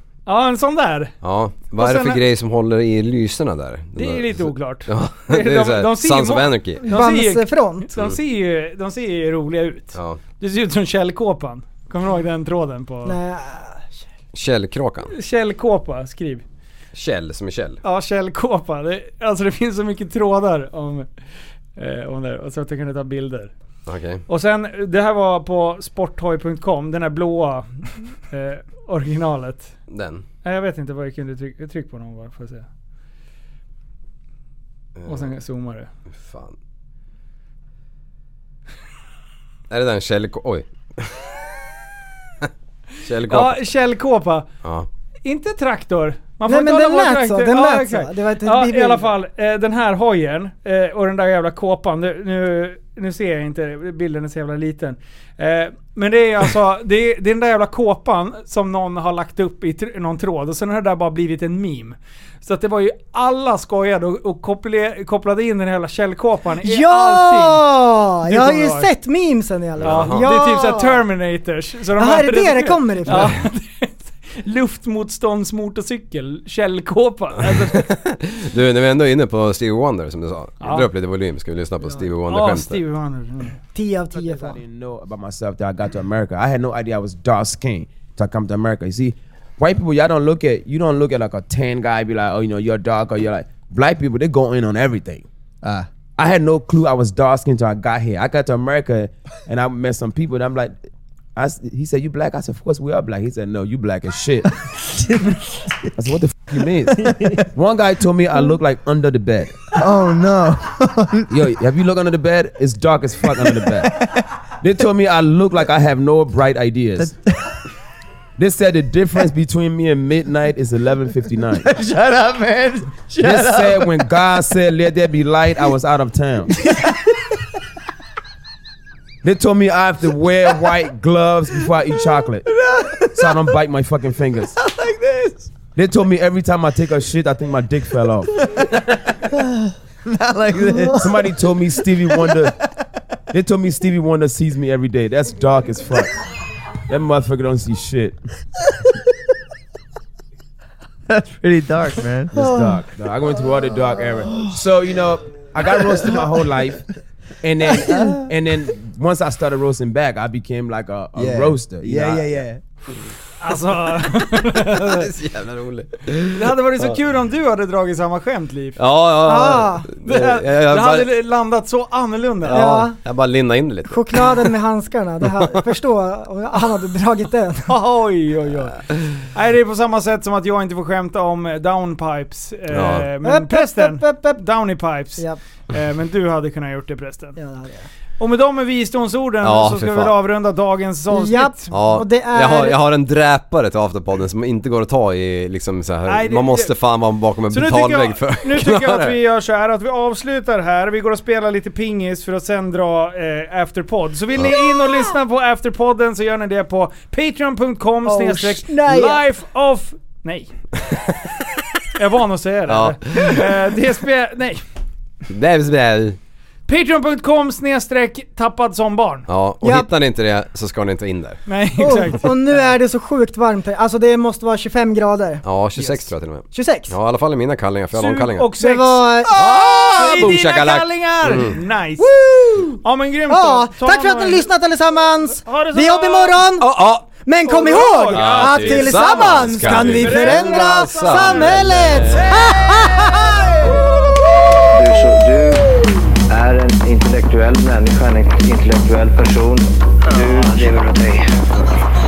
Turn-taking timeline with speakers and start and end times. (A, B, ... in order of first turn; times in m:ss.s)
0:00.2-0:01.1 A
0:01.2-0:06.8 B
0:01.8-0:02.2 A
0:04.0-0:13.2 A
0:06.9-0:07.9 C
0:09.9-0:10.2 B
0:13.0-0:14.0 C
0:14.3-0:15.1 B
0:15.1-0:16.4 A
0:16.9-0:17.8 B
0:17.8-0:21.1 A
0:21.8-0:23.5 A
0:23.8-0:24.2 B
0:24.3-0:29.7 A
0:29.9-0:30.2 B
0:30.4-0:32.6 A
0:35.0-0:35.2 B
0:35.0-0:35.9 A
0:36.1-0:36.6 B
0:39.7-0:41.3 B
0:43.0-0:43.6 B
0:43.3-0:44.5 A
0:44.6-0:44.9 B
0:45.2-1:07.7 A
0:46.4-0:49.1 C
1:06.6-1:11.0 C
1:08.2-1:08.9 A
1:09.8-1:10.3 B
1:09.8-1:17.9 A
1:12.0-1:13.3 C
1:13.1-1:13.4 B
1:17.4-1:22.8 B
1:20.6-1:20.9 A
1:22.2-1:23.6 A
1:23.7-1:24.6 C
1:24.1-1:35.2 D
1:35.6-1:35.9 E
1:36.2-1:40.8 D
1:41.4-1:44.5 D
1:46.0-1:49.6 D
1:47.0-1:47.4 E
1:49.7-1:51.3 E
1:51.3-1:53.9 D
1:53.5-1:54.2 E
1:54.6-1:57.1 D
1:58.4-2:01.7 D
2:01.6-2:04.0 E
2:03.2-2:06.5 D
2:09.2-2:12.4 D
2:12.5-2:13.3 E
2:13.1-2:14.5 D
2:14.6-2:15.5 E
2:15.7-2:18.3 D
2:20.1-2:21.3 E
2:20.9-2:22.5 D
2:22.1-2:22.5 E
2:23.3-2:26.1 D
2:26.9-2:28.2 D
2:31.1-2:32.8 E
2:32.3-2:36.8 D
2:35.7-2:36.1 E
2:37.4-2:42.4 D
2:37.9-2:38.2 E
2:41.1-2:42.6 E
2:43.4-2:45.1 A
2:44.6-2:47.0 B
2:46.3-2:48.8 A
2:48.8-2:51.1 B
2:49.2-2:49.9 C
2:50.0-2:52.8 A
2:52.4-2:54.4 B
2:52.5-2:53.0 C
2:53.9-2:57.7 C
2:55.2-2:55.6 B
2:57.7-3:07.4 A
3:02.7-3:03.1 B
3:03.2-3:04.4 C
3:07.4-3:07.9 C
3:08.2-3:11.7 A
3:09.4-3:10.1 B
3:11.1-3:12.8 C
3:11.7-3:19.2 B
3:16.0-3:16.7 A
3:17.5-3:30.5 A
3:28.0-3:29.2 C
3:30.9-3:31.3 B
3:32.0-3:34.6 A
3:32.7-3:33.6 B
3:35.3-3:36.2 B
3:36.7-3:39.3 A
3:39.3-3:41.4 B
3:39.6-3:39.9 C
3:41.5-3:42.7 A
3:41.8-3:45.4 C
3:45.4-3:48.5 B
3:45.8-3:46.0 A
3:46.5-3:46.9 C
3:47.9-3:52.1 A
3:48.6-3:49.4 C
3:49.3-3:51.6 B
3:52.0-3:56.7 C
3:52.8-3:54.5 A
3:55.4-3:56.5 A
3:56.6-3:57.1 B
3:57.2-4:03.5 C
3:57.4-4:02.1 A
3:58.1-4:02.6 B
4:04.7-4:05.7 F
4:06.3-4:11.3 F